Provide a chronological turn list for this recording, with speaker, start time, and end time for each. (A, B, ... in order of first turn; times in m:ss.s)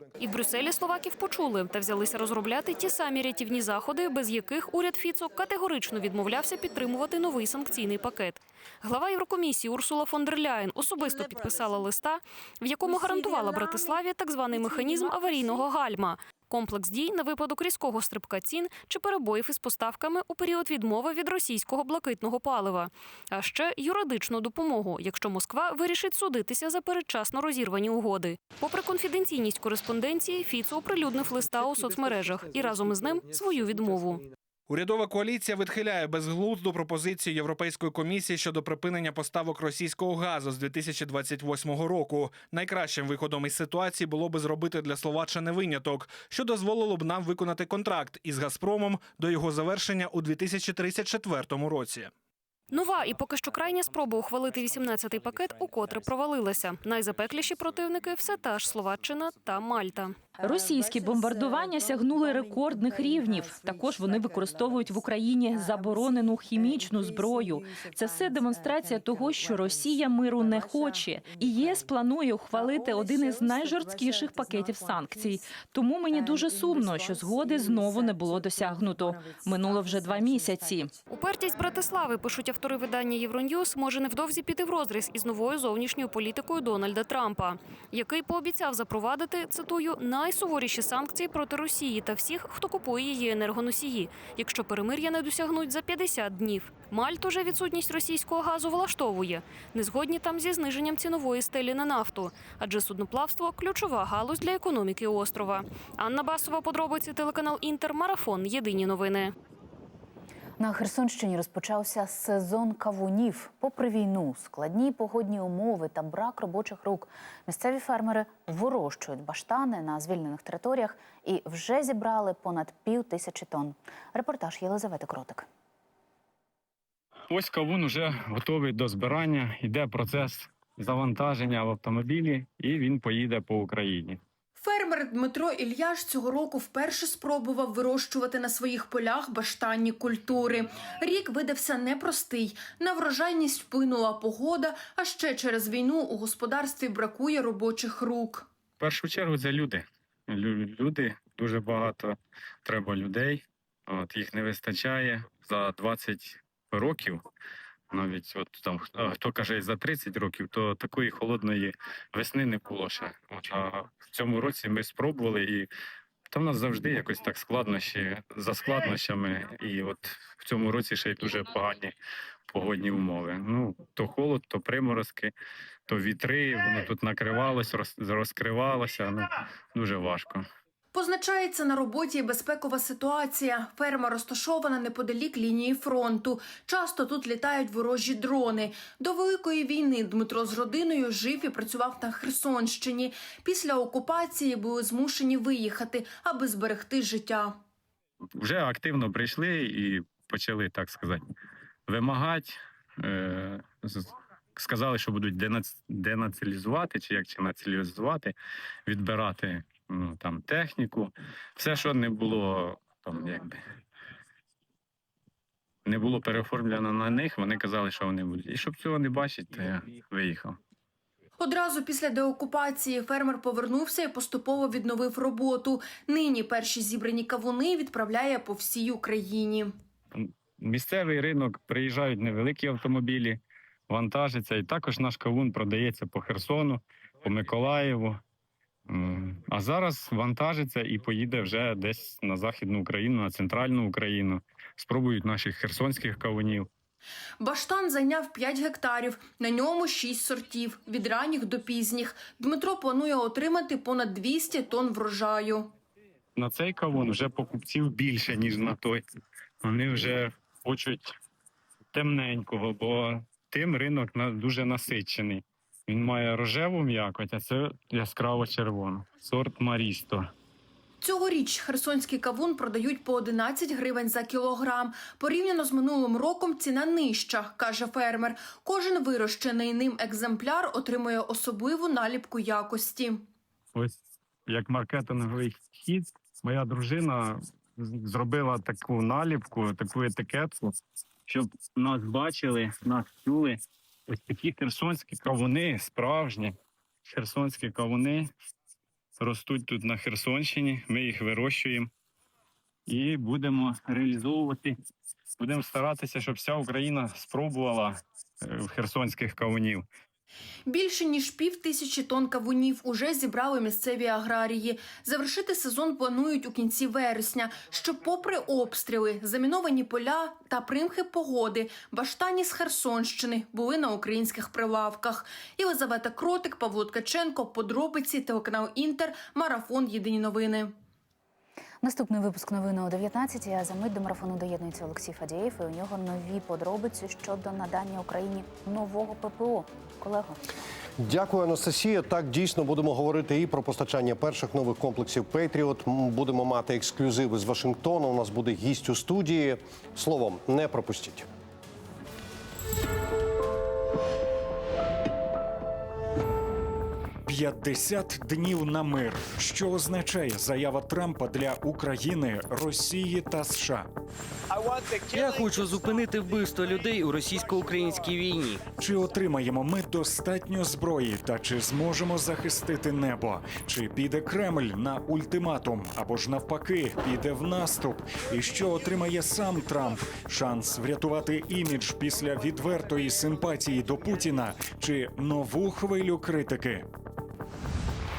0:00.2-0:34.3 A
0:34.7-0:52.1 B
0:52.7-1:00.2 A
1:00.4-1:20.9 C
1:21.1-1:49.3 A
1:50.6-2:05.5 D
2:07.3-2:14.2 E
2:14.6-2:28.5 F
2:28.8-2:37.2 E
2:37.9-2:45.7 E
2:46.3-2:51.9 E
2:52.5-2:55.3 E
2:55.9-3:00.4 E
3:00.9-3:17.6 F
3:18.4-3:21.2 E
3:21.9-3:28.3 E
3:28.9-3:33.6 E
3:35.8-3:40.6 E
3:41.4-3:49.8 F
3:50.2-3:58.2 E
3:58.9-4:06.7 E
4:07.4-4:15.7 F
4:16.4-4:19.0 E
4:19.6-4:21.2 E
4:21.9-4:30.3 E
4:31.0-4:43.3 F
4:43.7-4:50.8 E
4:51.3-4:56.6 E
4:57.1-4:58.3 E
4:59.2-5:01.9 E
5:02.9-5:04.8 E
5:05.4-5:09.8 E
5:10.7-5:30.8 F
5:31.8-5:40.4 D
5:41.0-5:51.3 G
5:57.3-6:03.9 H
6:04.7-6:08.6 I
6:08.8-6:26.9 H